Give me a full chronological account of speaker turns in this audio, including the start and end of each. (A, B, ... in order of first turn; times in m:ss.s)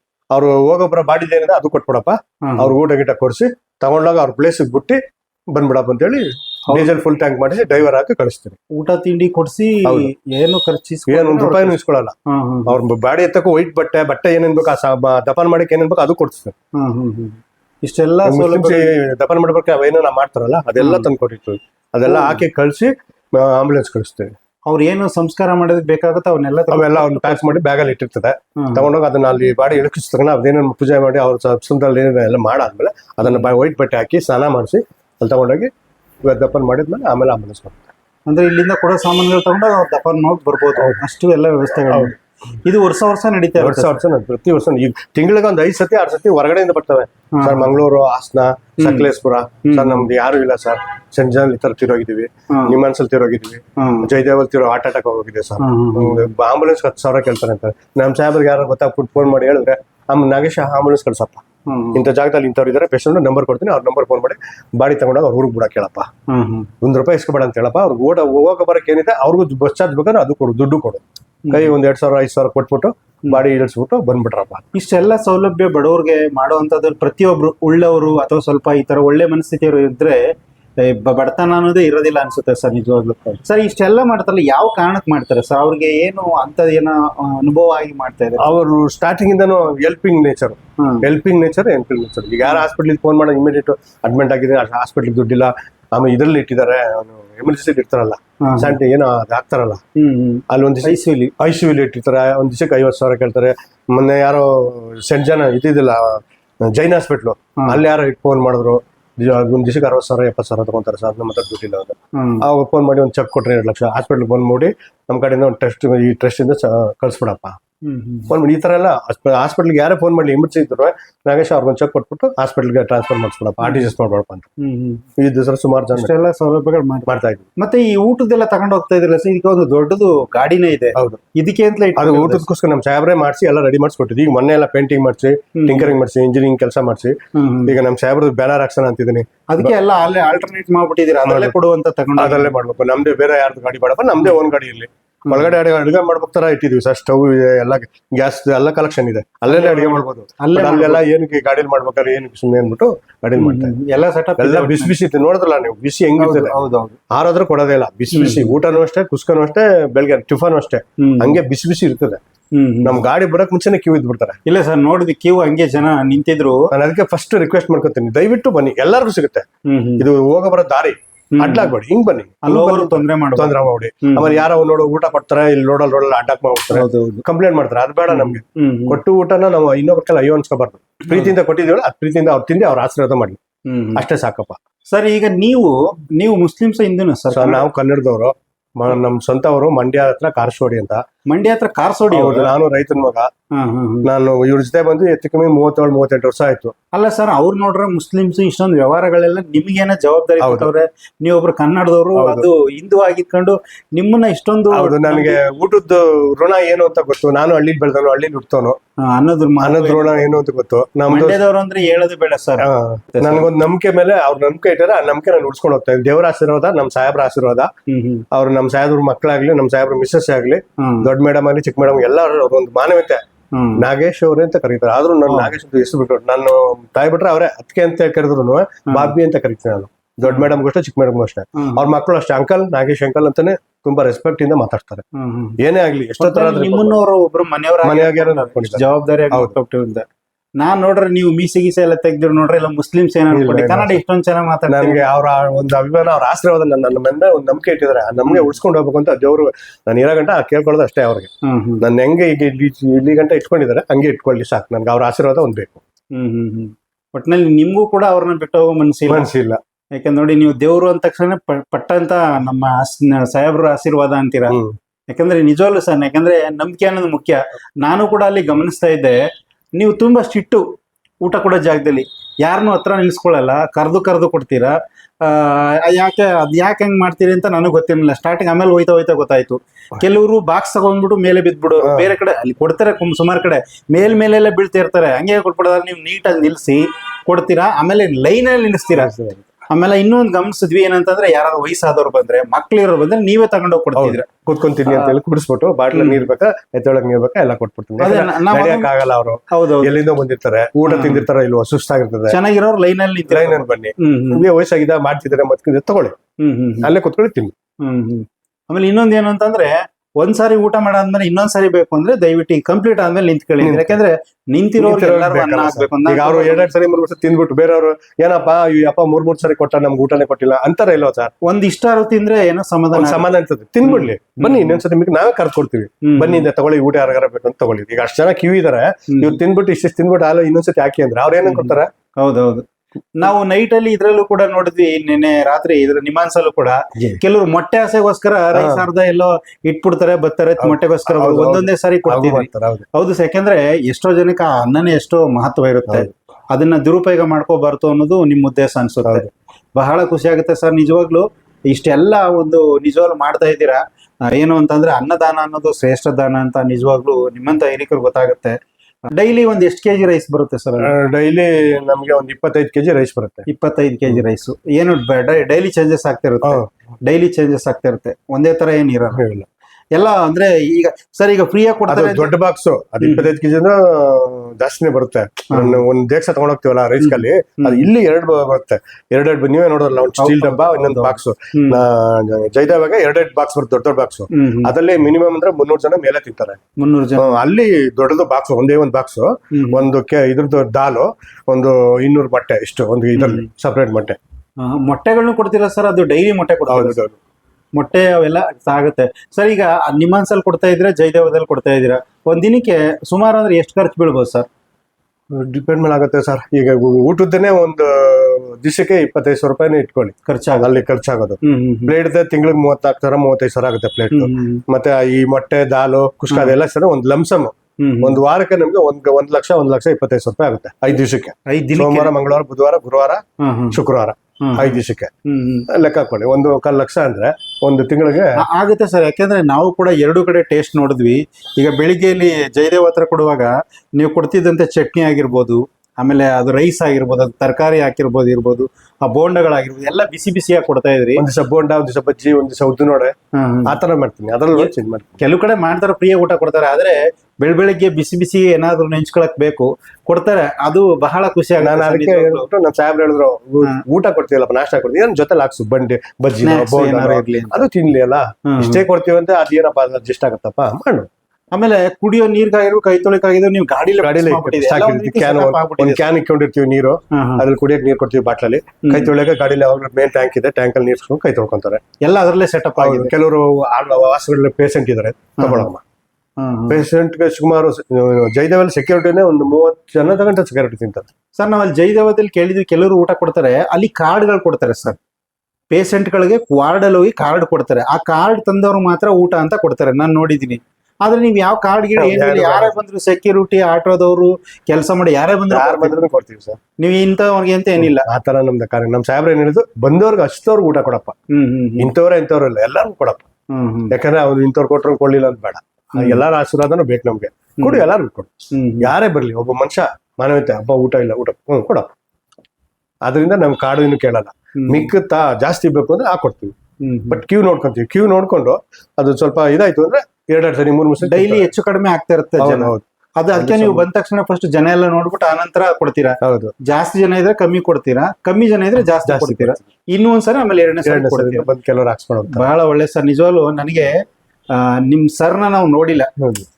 0:00.3-0:08.6 A
0:02.4-0:02.7 B
0:08.7-0:11.8 B
0:11.1-0:16.5 A
0:12.3-0:12.8 B
0:16.8-0:18.9 B
0:18.2-0:24.3 A
0:20.8-0:21.1 B
0:22.0-0:22.4 B
0:24.7-0:27.6 B
0:26.7-0:35.7 A
0:28.6-0:28.9 B
0:36.2-0:37.9 A
0:38.3-0:44.0 B
0:43.6-1:06.1 A
0:47.4-0:47.7 B
0:48.8-0:49.1 B
0:49.6-0:50.1 B
0:52.5-0:52.8 B
0:53.8-0:54.1 B
0:55.6-0:56.3 B
1:01.7-1:02.0 B
1:06.3-1:06.7 B
1:06.8-1:14.6 A
1:11.4-1:11.7 B
1:14.7-1:20.2 B
1:20.8-1:28.5 B
1:28.4-1:39.8 A
1:30.8-1:31.0 B
1:38.4-1:38.7 B
1:40.0-1:41.3 B
1:40.5-1:57.6 A
1:52.1-1:52.4 B
1:57.8-1:58.3 B
1:58.3-2:04.5 A
2:04.6-2:05.0 B
2:05.2-2:06.1 A
2:05.9-2:12.4 B
2:07.1-2:07.5 A
2:10.9-2:11.2 A
2:12.0-2:19.7 A
2:15.5-2:15.9 B
2:17.3-2:17.7 B
2:19.5-2:22.5 B
2:21.2-2:21.6 A
2:22.2-2:33.8 A
2:29.5-2:31.0 B
2:33.4-2:34.9 B
2:34.4-2:36.6 A
2:36.2-2:37.0 B
2:37.1-2:42.2 A
2:38.1-2:38.5 B
2:41.0-2:41.4 B
2:42.6-2:43.0 B
2:42.8-2:44.4 A
2:44.4-2:46.7 B
2:46.7-2:49.4 A
2:49.7-2:50.0 B
2:50.0-3:03.4 A
2:51.4-2:51.7 B
2:52.4-2:54.4 B
2:56.7-2:57.2 B
2:58.1-2:59.0 B
3:01.1-3:01.3 B
3:03.7-3:04.0 B
3:04.0-3:04.6 A
3:04.9-3:07.6 B
3:07.3-3:11.0 A
3:11.3-3:12.5 B
3:12.1-3:13.3 A
3:13.6-3:14.1 B
3:14.0-3:16.7 A
3:16.9-3:25.4 B
3:20.4-3:20.7 A
3:22.1-3:22.4 A
3:24.7-3:28.8 A
3:29.0-3:30.1 B
3:29.6-3:31.4 A
3:31.1-3:33.5 B
3:32.6-3:37.7 A
3:37.9-3:38.2 B
3:38.3-3:43.2 A
3:40.8-3:41.1 B
3:43.5-3:43.8 B
3:43.8-3:55.0 A
3:45.3-3:45.5 B
3:50.2-3:50.5 B
3:51.6-3:51.8 B
3:55.1-3:55.6 B
3:55.6-3:57.0 A
3:56.2-4:00.0 B
3:57.8-3:59.5 A
4:00.6-4:05.1 B
4:03.3-4:04.0 A
4:04.7-4:15.8 A
4:11.4-4:11.8 B
4:16.1-4:19.2 B
4:19.1-4:19.6 A
4:19.9-4:24.6 B
4:24.5-4:24.7 A
4:25.1-4:29.2 B
4:29.8-4:30.6 B
4:31.2-4:54.2 B
4:41.8-4:42.1 A
4:49.0-4:49.4 A
4:54.0-5:02.4 A
4:54.9-4:55.1 B
4:55.9-4:56.2 B
4:58.0-4:58.9 B
4:59.5-4:59.9 B
5:00.9-5:01.2 B
5:02.3-5:04.4 B
5:03.3-5:06.2 A
5:06.4-5:06.9 B
5:06.8-5:07.5 A
5:07.8-5:16.7 B
5:13.6-5:14.0 A
5:14.8-5:21.3 A
5:21.4-5:23.2 B
5:22.9-5:31.9 A
5:23.8-5:24.8 B
5:26.0-5:26.4 B
5:29.1-5:29.4 B
5:31.4-5:32.6 B
5:33.2-5:58.6 B
5:38.5-5:38.8 A
5:40.6-5:42.8 A
5:59.1-6:00.9 B
6:00.8-6:03.5 A
6:03.5-6:09.2 B
6:09.1-6:09.5 A
6:09.9-6:12.3 B
6:11.9-6:26.6 A
6:13.0-6:13.3 B
6:15.5-6:15.8 B
6:17.0-6:17.9 B
6:20.2-6:21.8 B
6:24.3-6:24.7 B
6:26.8-6:27.4 B
6:27.2-6:34.2 A
6:29.5-6:29.8 B
6:33.2-6:33.4 B
6:34.6-6:37.0 B
6:36.7-6:37.1 A
6:37.8-6:44.5 B
6:45.3-7:05.1 A
6:50.2-6:50.8 B
6:51.4-6:51.9 B
6:54.1-6:54.6 B
6:57.8-6:58.2 B
7:01.5-7:02.1 B
7:03.4-7:03.8 B
7:04.4-7:05.6 B
7:05.7-7:08.4 A
7:08.4-7:21.2 B
7:21.2-7:23.1 A
7:23.4-7:23.8 B
7:23.7-7:25.2 A
7:24.5-7:32.5 B
7:31.6-7:41.1 A
7:36.4-7:37.6 B
7:38.5-7:38.8 B
7:41.5-7:46.0 B
7:44.0-7:51.8 A
7:47.1-7:47.4 B
7:48.8-7:49.1 B
7:52.0-7:53.1 B
7:52.8-7:55.8 A
7:55.4-7:55.7 B
7:56.4-7:56.8 B
7:56.7-8:01.1 A
8:01.4-8:05.0 B
8:05.7-8:16.0 B
8:12.0-8:12.7 A
8:15.5-8:16.6 A
8:16.8-8:18.1 B
8:17.8-8:21.1 A
8:21.3-8:21.9 B
8:21.8-8:23.2 A
8:23.5-8:23.9 B
8:23.9-8:31.9 A
8:25.9-8:26.2 B
8:28.5-8:28.9 B
8:33.0-8:36.5 A
8:34.6-8:34.9 B
8:36.8-8:37.2 B
8:37.1-8:41.5 A
8:41.0-8:51.5 B
8:42.4-8:43.8 A
8:46.2-8:46.5 A
8:49.0-8:49.6 A
8:50.8-8:52.4 A
8:52.3-8:56.1 B
8:56.2-8:56.4 A